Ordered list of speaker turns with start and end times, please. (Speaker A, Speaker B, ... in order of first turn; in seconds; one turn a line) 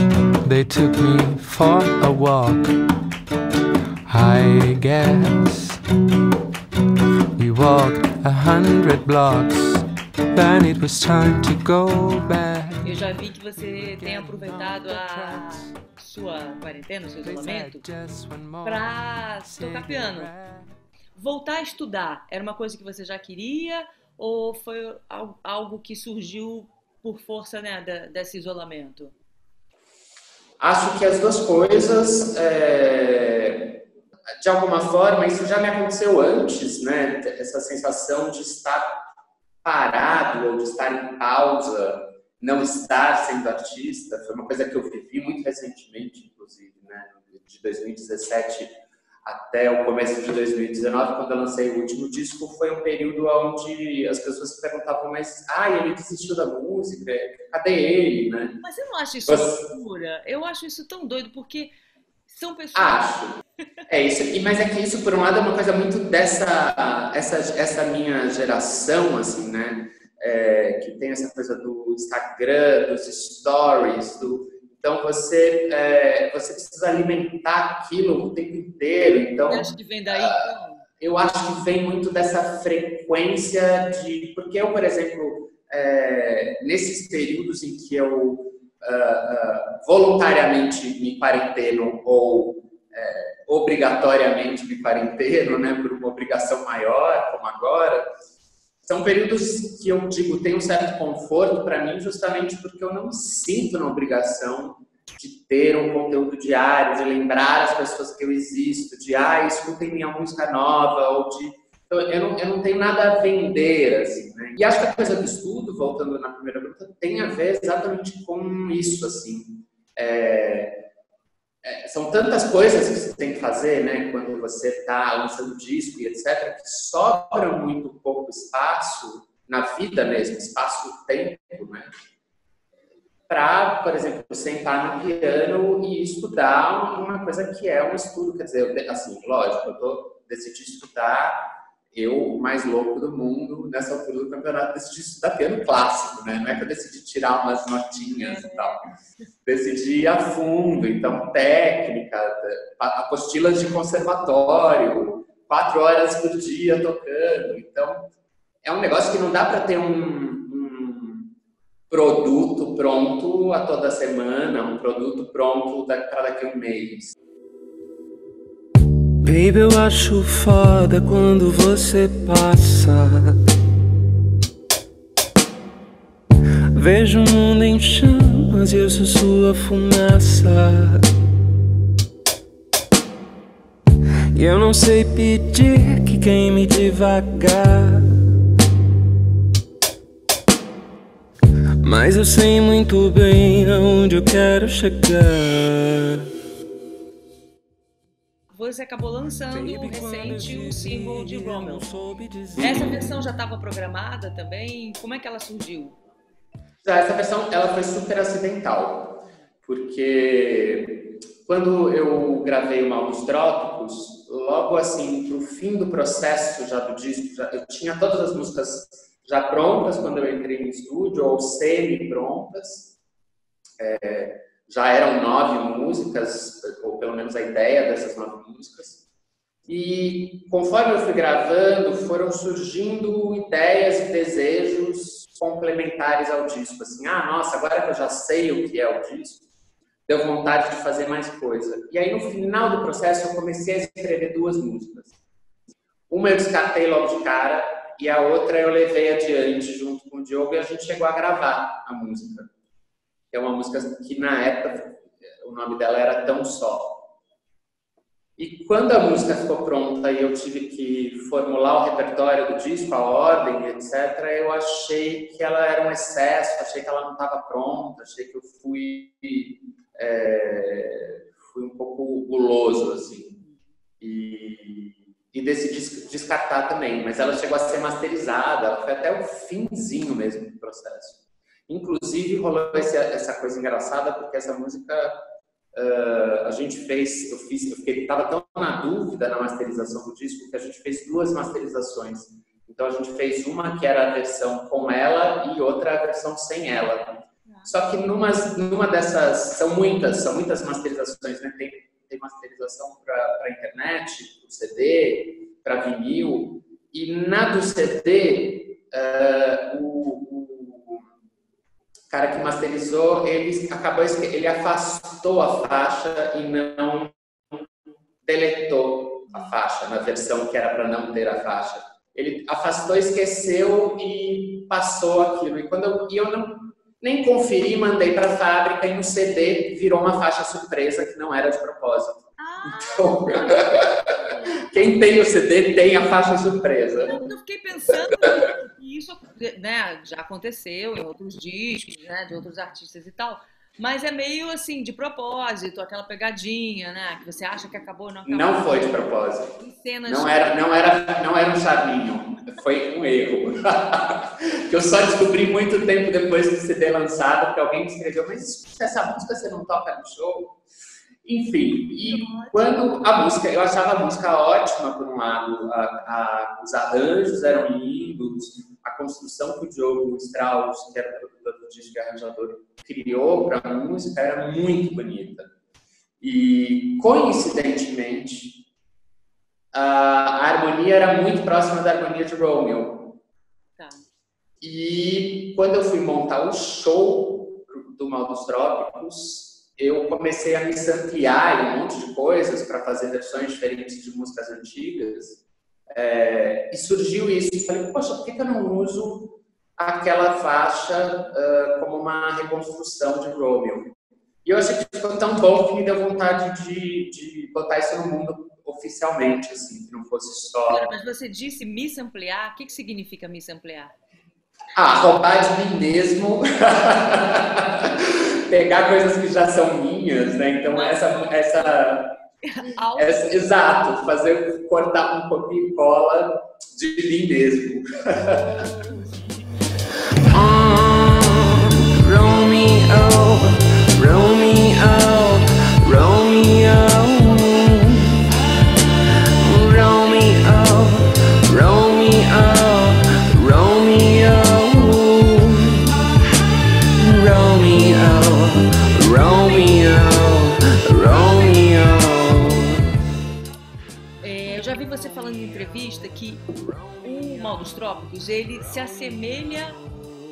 Speaker A: 0.5-2.8
Speaker A: 4.1-5.8
Speaker A: 7.4-15.8
Speaker B: 12.8-17.9
Speaker A: 17.2-20.7
Speaker B: 18.6-20.3
Speaker B: 21.1-29.1
Speaker C: 30.6-33.8
Speaker C: 34.4-39.0
Speaker C: 39.6-58.6
Speaker B: 58.6-61.7
Speaker C: 59.3-59.7
Speaker B: 62.3-63.1
Speaker C: 62.7-98.1
Speaker B: 79.5-80.8
Speaker C: 98.8-120.9
Speaker C: 121.6-131.9
Speaker C: 133.3-148.8
Speaker B: 148.2-148.9
Speaker C: 149.4-158.1
Speaker C: 158.6-161.3
Speaker C: 161.9-167.2
Speaker A: 169.2-173.4
Speaker A: 176.7-181.1
Speaker A: 184.3-188.3
Speaker A: 191.8-196.3
Speaker B: 198.5-201.9
Speaker A: 199.5-203.0
Speaker B: 202.6-206.0
Speaker C: 202.6-202.9
Speaker C: 206.8-222.9
Speaker C: 223.8-229.0
Speaker C: 229.7-239.4
Speaker C: 240.1-245.2
Speaker C: 246.1-252.5
Speaker C: 253.3-257.1
Speaker C: 258.4-273.4
Speaker C: 274.0-311.1
Speaker B: 297.5-297.7
Speaker C: 312.1-317.7
Speaker C: 318.2-334.1
Speaker B: 332.4-334.9
Speaker C: 334.6-337.2
Speaker B: 337.1-348.9
Speaker C: 348.3-360.6
Speaker B: 349.6-350.5
Speaker C: 361.2-375.5
Speaker B: 362.0-363.0
Speaker C: 376.2-378.6
Speaker C: 379.7-383.2
Speaker B: 383.8-384.1
Speaker C: 384.6-410.9
Speaker B: 410.7-413.9
Speaker C: 414.7-422.1
Speaker B: 420.7-421.1
Speaker B: 422.4-423.3
Speaker C: 423.0-428.6
Speaker A: 430.3-438.2
Speaker A: 439.4-445.9
Speaker A: 447.0-452.8
Speaker B: 454.2-456.4
Speaker B: 457.0-459.8